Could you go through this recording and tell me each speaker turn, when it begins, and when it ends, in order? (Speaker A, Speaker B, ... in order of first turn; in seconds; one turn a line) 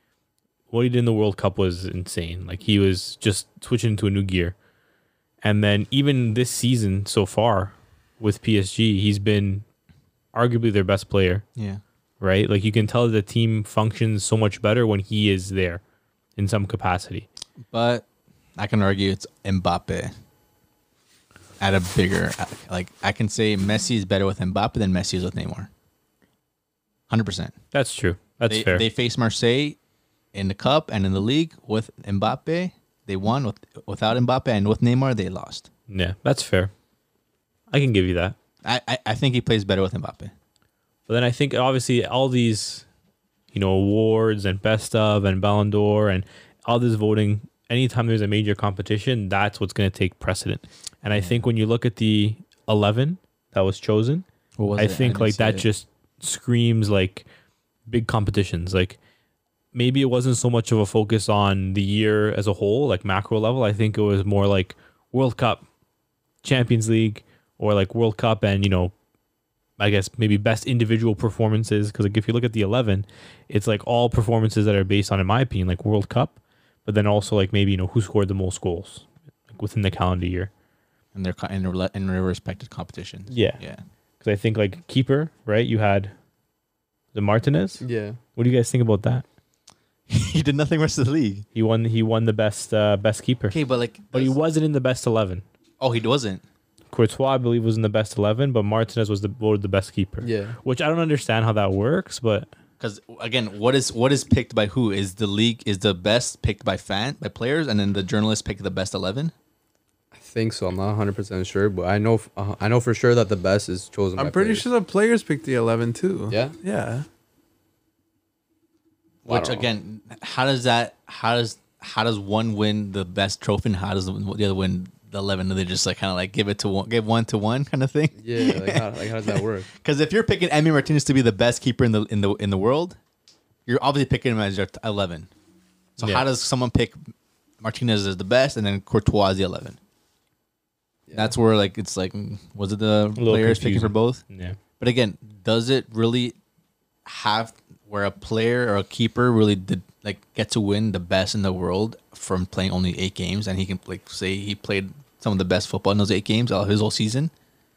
Speaker A: 0.7-4.5
Speaker A: 5.4-9.6
Speaker A: 10.3-11.4
Speaker B: 11.6-11.8
Speaker A: 12.2-15.8
Speaker A: 16.4-17.3
Speaker B: 17.6-18.1
Speaker B: 18.6-20.1
Speaker B: 21.6-25.7
Speaker B: 27.1-27.5
Speaker A: 27.7-28.8
Speaker B: 28.5-29.8
Speaker B: 30.3-35.7
Speaker A: 35.9-36.7
Speaker A: 37.7-38.4
Speaker B: 38.6-40.3
Speaker A: 41.1-42.9
Speaker A: 43.5-54.2
Speaker B: 51.1-51.5
Speaker B: 54.6-55.7
Speaker A: 54.8-57.2
Speaker A: 57.9-59.0
Speaker A: 59.7-65.6
Speaker A: 66.4-68.9
Speaker A: 69.8-80.5
Speaker B: 81.1-83.8
Speaker A: 83.3-83.6
Speaker A: 84.2-86.1
Speaker A: 87.1-87.8
Speaker C: 87.8-88.2
Speaker A: 88.3-89.2
Speaker B: 90.1-91.5
Speaker A: 91.5-93.6
Speaker B: 93.5-94.4
Speaker A: 94.1-95.4
Speaker B: 95.8-96.4
Speaker A: 96.9-102.5
Speaker C: 100.2-100.5
Speaker B: 102.8-109.3
Speaker C: 110.1-114.6
Speaker D: 114.2-117.0
Speaker C: 116.3-116.5
Speaker C: 119.2-119.7
Speaker B: 119.2-133.0
Speaker C: 128.2-129.7
Speaker B: 133.7-135.3
Speaker A: 136.0-136.2
Speaker B: 136.0-137.0
Speaker B: 137.6-139.8
Speaker C: 141.1-141.3
Speaker B: 141.1-144.2
Speaker A: 143.2-144.6
Speaker B: 144.8-146.4
Speaker B: 147.0-157.3